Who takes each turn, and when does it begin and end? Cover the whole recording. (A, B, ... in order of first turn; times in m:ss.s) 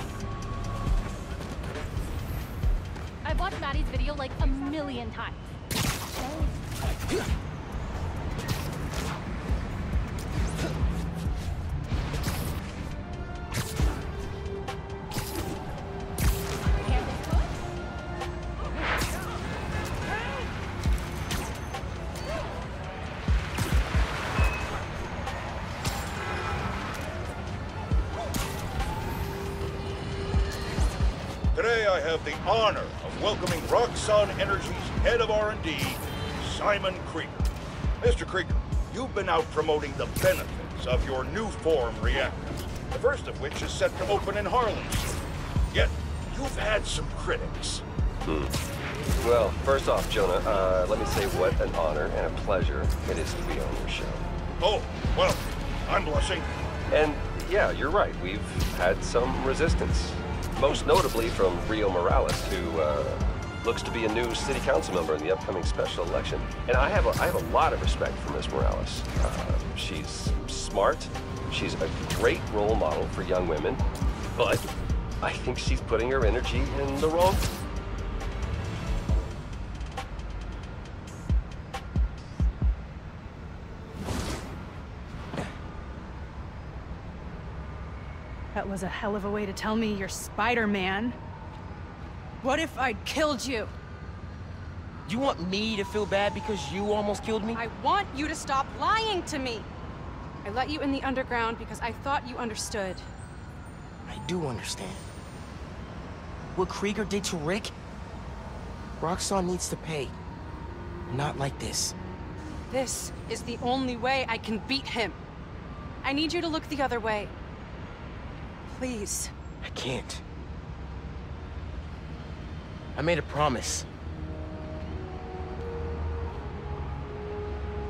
0:03.2-0:05.4 A
0:17.0-0:17.4 A
0:31.5-0:37.5 B
0:38.0-0:45.1 B
0:45.7-0:47.8 B
0:48.2-0:48.5 C
0:49.2-0:54.2 C
0:54.6-0:56.5 B
0:56.9-1:13.8 C
1:14.3-1:14.7 C
1:15.2-1:17.5 C
1:28.5-1:31.2 D
1:32.4-1:33.7 D
1:35.0-1:37.6 E
1:37.5-1:39.7 D
1:40.4-1:43.0 D
1:44.0-1:45.0 E
1:46.5-1:47.7 E
1:49.0-1:50.1 E
1:51.1-1:52.0 E
1:52.7-1:55.2 D
1:56.0-1:57.3 D
1:58.7-1:59.3 D
1:59.6-2:00.2 E
2:02.9-2:03.9 E